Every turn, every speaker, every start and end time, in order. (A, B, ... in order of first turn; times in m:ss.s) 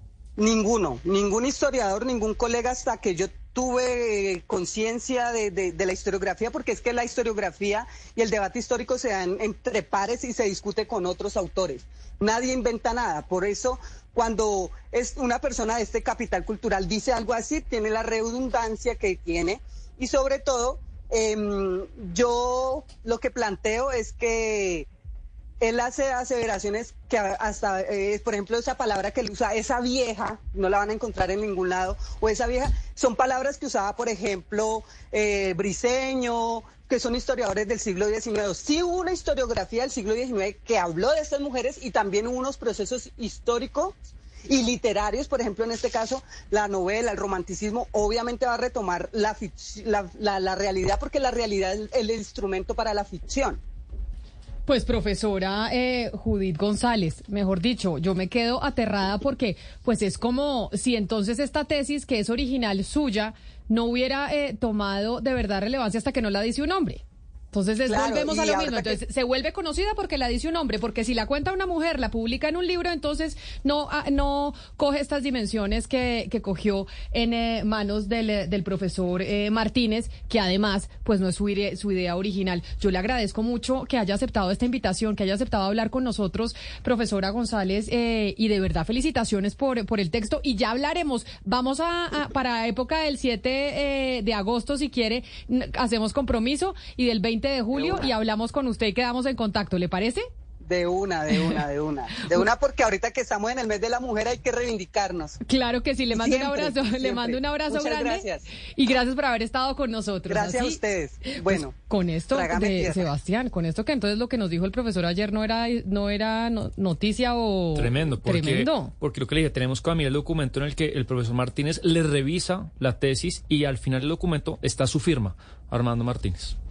0:00.4-0:24.9 A
0:25.6-0:53.6 A
0:54.7-1:40.2 B
1:07.8-1:09.0 A
1:37.7-1:38.1 A
1:40.6-1:45.4 A
1:45.4-1:58.9 B
1:46.1-1:48.5 A
1:50.3-1:51.7 A
1:52.3-1:53.1 A
1:57.8-2:06.5 C